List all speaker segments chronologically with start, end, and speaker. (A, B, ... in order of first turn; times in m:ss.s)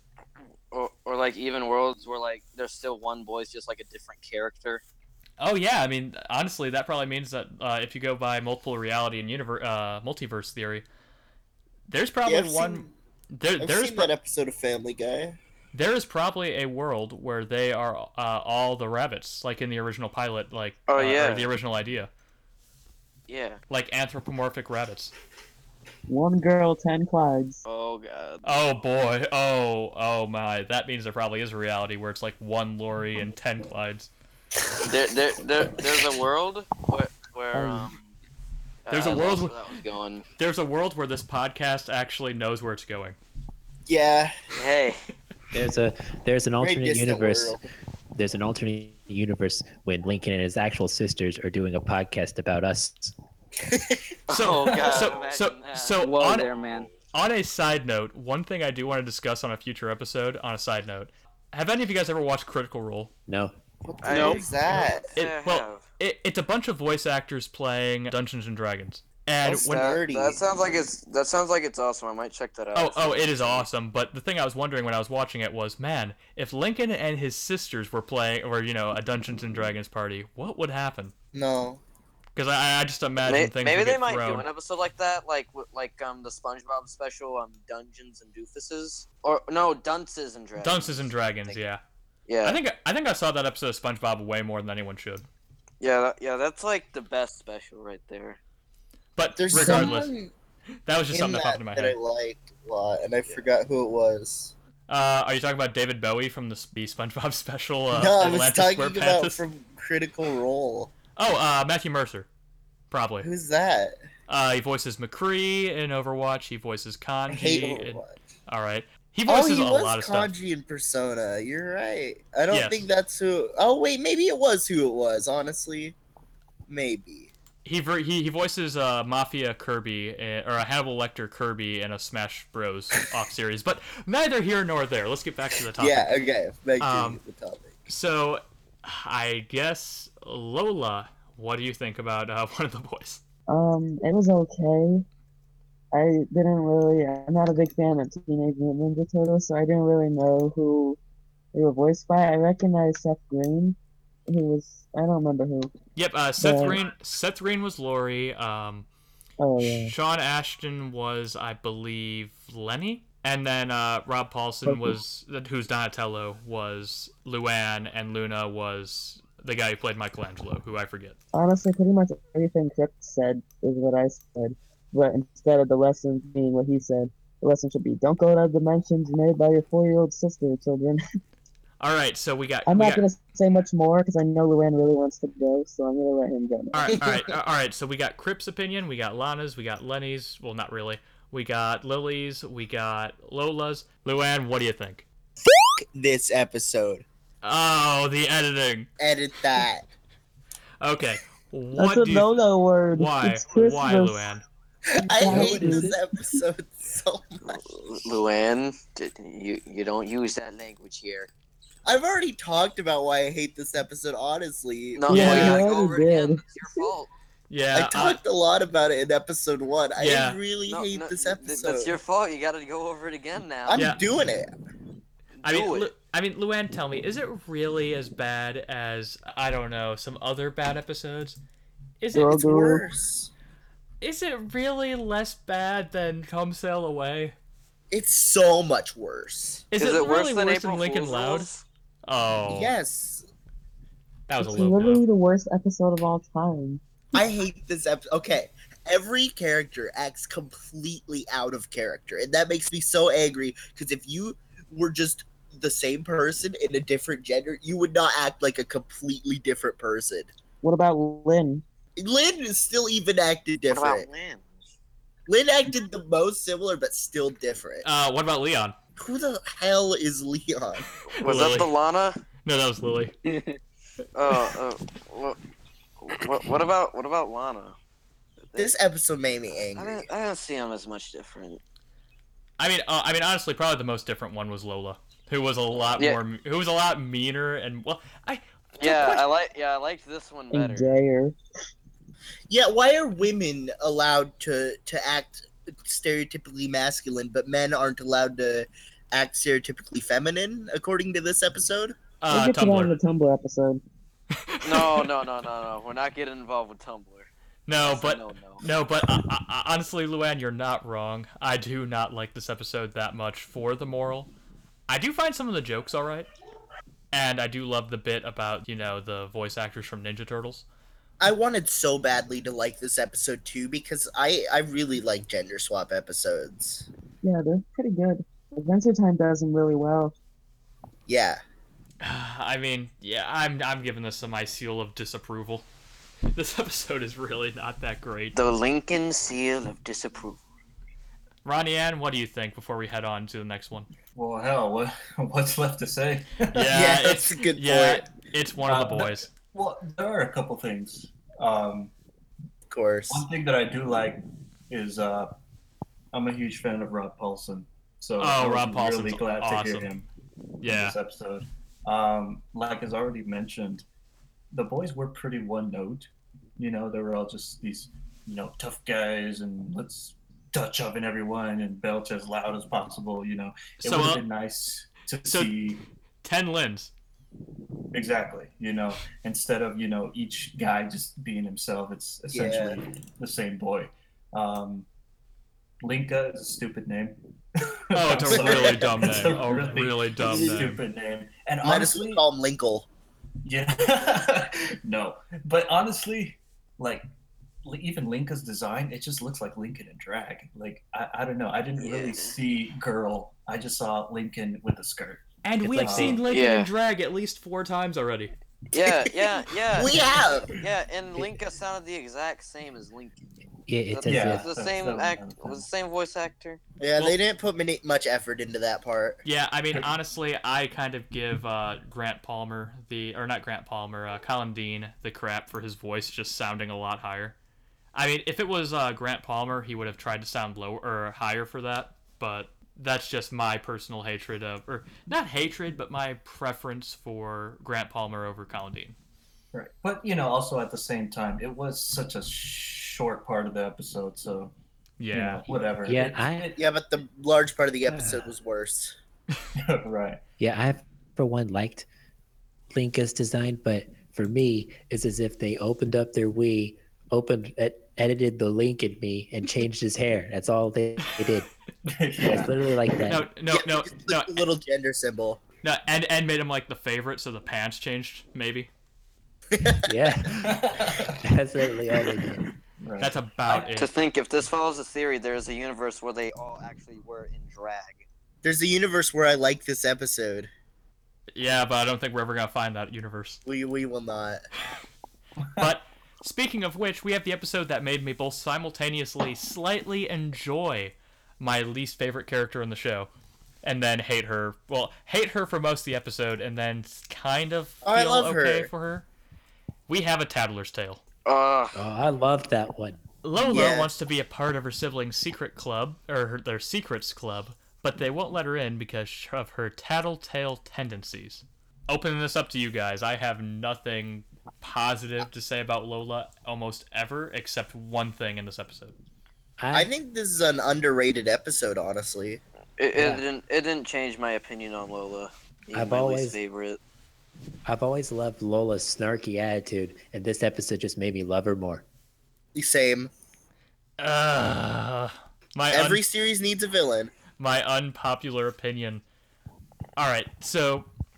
0:00.7-0:04.8 A
0:05.4-0:10.8 B
0:11.9-0:14.1 B
0:12.2-0:12.9 C
0:13.6-0:15.4 C
0:15.7-0:22.1 B
0:20.9-0:21.5 A
0:23.3-0:23.6 A
0:23.7-0:25.1 B
0:26.1-0:27.6 D
0:27.6-0:28.4 A
0:28.4-0:34.1 B
0:34.8-0:38.1 A
0:37.5-0:37.9 D
0:38.8-0:40.2 A
0:38.9-0:39.5 B
0:40.4-0:43.2 B
0:43.9-0:44.3 C
0:44.5-0:45.0 A
0:45.5-0:47.6 E
0:46.6-0:47.6 C
0:48.1-0:53.1 E
0:53.7-0:54.0 C
0:54.3-0:56.5 B
0:54.3-0:56.8 A
0:54.6-0:55.2 F
0:57.1-1:03.1 B
1:03.3-1:03.5 E
1:03.8-1:05.1 C
1:04.0-1:05.8 A
1:05.2-1:10.0 B
1:09.4-1:10.4 C
1:09.6-1:13.7 A
1:12.7-1:21.1 B
1:21.3-1:21.8 C
1:22.3-1:24.4 B
1:23.2-1:31.5 A
1:30.6-1:31.8 B
1:32.3-1:32.6 A
1:32.4-1:35.2 B
1:35.8-1:38.4 A
1:39.2-1:40.1 B
1:39.4-1:40.3 C
1:40.9-1:42.0 B
1:41.1-1:44.5 C
1:44.9-1:49.4 B
1:47.9-1:50.9 C
1:51.2-1:52.3 B
1:52.9-1:53.3 B
1:53.2-1:53.9 C
1:54.3-2:00.3 B
1:57.3-1:58.2 C
1:59.2-2:06.0 C
2:02.5-2:02.8 B
2:06.7-2:07.3 C
2:07.6-2:16.1 B
2:15.8-2:17.7 C
2:16.8-2:17.2 B
2:17.9-2:23.2 B
2:23.5-2:25.0 D
2:25.9-2:31.0 D
2:31.5-2:35.7 D
2:36.0-2:38.8 B
2:36.4-2:36.8 D
2:39.4-2:39.9 D
2:39.6-2:51.2 B
2:44.6-2:45.0 D
2:51.3-3:01.0 D
3:01.8-3:03.0 B
3:02.6-3:06.9 D
3:06.7-3:15.0 B
3:15.9-3:17.0 C
3:17.4-3:18.9 B
3:19.0-3:19.8 C
3:20.8-3:22.3 B
3:21.7-3:24.2 D
3:22.9-3:24.4 B
3:24.9-3:27.6 C
3:25.0-3:26.0 D
3:25.2-3:26.0 E
3:27.4-3:31.3 A
3:31.8-3:35.2 C
3:34.9-3:37.1 A
3:35.1-3:36.9 D
3:35.1-3:35.6 B
3:37.5-3:38.2 B
3:37.7-3:42.0 C
3:40.0-3:40.4 B
3:40.7-3:43.9 A
3:43.6-3:44.5 C
3:43.7-3:44.0 B
3:45.4-3:45.9 A
3:45.4-3:51.4 B
3:52.0-3:52.6 B
3:52.1-3:52.8 D
3:52.3-3:53.3 C
3:54.0-3:57.4 B
3:57.9-3:59.6 C
3:59.7-4:01.5 B
3:59.8-4:01.6 A
4:02.0-4:02.7 B
4:02.5-4:03.2 C
4:04.3-4:05.0 B
4:04.4-4:06.8 D
4:07.1-4:20.3 C
4:20.6-4:21.6 D
4:22.0-4:24.1 C
4:23.7-4:24.5 A
4:25.3-4:27.8 C
4:27.8-4:28.8 B
4:29.0-4:30.9 C
4:31.1-4:32.2 A
4:31.2-4:31.7 B
4:32.4-4:33.1 B
4:34.1-4:35.4 A
4:36.0-4:37.8 A
4:38.6-4:40.0 C
4:39.8-4:41.6 A
4:42.6-4:49.2 B
4:45.8-4:46.2 A
4:48.8-4:51.0 A
4:50.5-4:51.4 D
4:52.5-5:02.0 C
5:02.2-5:03.0 B
5:02.3-5:03.8 D
5:04.4-5:05.1 B
5:04.6-5:07.3 A
5:07.7-5:14.3 B
5:07.8-5:08.6 A
5:14.9-5:16.3 B
5:17.1-5:20.6 B
5:21.2-5:26.9 C
5:27.2-5:30.1 D
5:31.1-5:31.4 C
5:32.0-5:35.6 B
5:36.3-5:38.4 B
5:38.3-5:40.4 A
5:41.4-5:43.9 B
5:44.1-5:46.8 F
5:46.5-5:49.3 B
5:46.7-5:48.1 C
5:48.6-5:51.9 F
5:52.7-5:53.2 C
5:53.1-5:55.4 F
5:56.1-6:00.0 F
5:58.2-5:59.9 B
6:00.6-6:01.0 B
6:00.7-6:03.8 F
6:04.5-6:15.8 F
6:13.8-6:14.2 B
6:15.2-6:15.6 B
6:16.2-6:16.9 B
6:17.9-6:24.9 F
6:22.3-6:22.8 C
6:25.8-6:27.2 F
6:27.9-6:32.2 F
6:27.9-6:30.8 B
6:28.2-6:28.9 C
6:30.3-6:30.7 C
6:31.6-6:32.9 C
6:33.4-6:37.1 F
6:37.6-6:45.2 F
6:41.8-6:42.4 A
6:45.4-6:48.3 B
6:45.6-6:46.2 E
6:45.8-6:46.2 F
6:46.3-6:46.7 A
6:48.7-6:53.2 A
6:48.8-6:50.5 C
6:53.7-6:54.5 E
6:53.9-6:56.6 A
6:54.0-6:55.6 F
6:56.8-6:59.2 C
6:59.2-7:07.4 B
7:07.9-7:19.0 B
7:19.5-7:24.5 F
7:25.0-7:25.4 B
7:25.1-7:26.6 F
7:25.5-7:26.5 E
7:26.6-7:28.9 C
7:27.9-7:28.2 E
7:29.6-7:30.2 F
7:30.4-7:31.8 E
7:32.7-7:41.5 E
7:41.8-7:42.5 F
7:42.2-7:43.2 E
7:43.1-7:44.4 B
7:43.5-7:45.4 C
7:45.6-7:48.7 B
7:49.5-7:49.9 C
7:49.9-7:52.4 E
7:50.4-7:51.2 F
7:52.8-7:53.6 F
7:53.0-7:53.9 B
7:53.5-7:58.0 A
7:58.4-8:00.5 C
8:01.3-8:03.4 B
8:03.4-8:04.4 C
8:05.6-8:13.1 B
8:13.6-8:19.1 B
8:17.8-8:18.7 C
8:19.9-8:21.0 B
8:21.2-8:21.8 A
8:21.7-8:23.0 E
8:23.2-8:38.9 B
8:23.4-8:23.9 C
8:39.6-8:39.9 E
8:39.7-8:42.4 C
8:42.8-8:46.8 A
8:42.9-8:43.2 E
8:45.7-8:46.4 E
8:47.6-8:51.8 E
8:52.5-8:53.1 C
8:54.0-8:56.0 B
8:55.7-8:57.1 C
8:57.4-8:59.0 B
9:00.0-9:00.9 B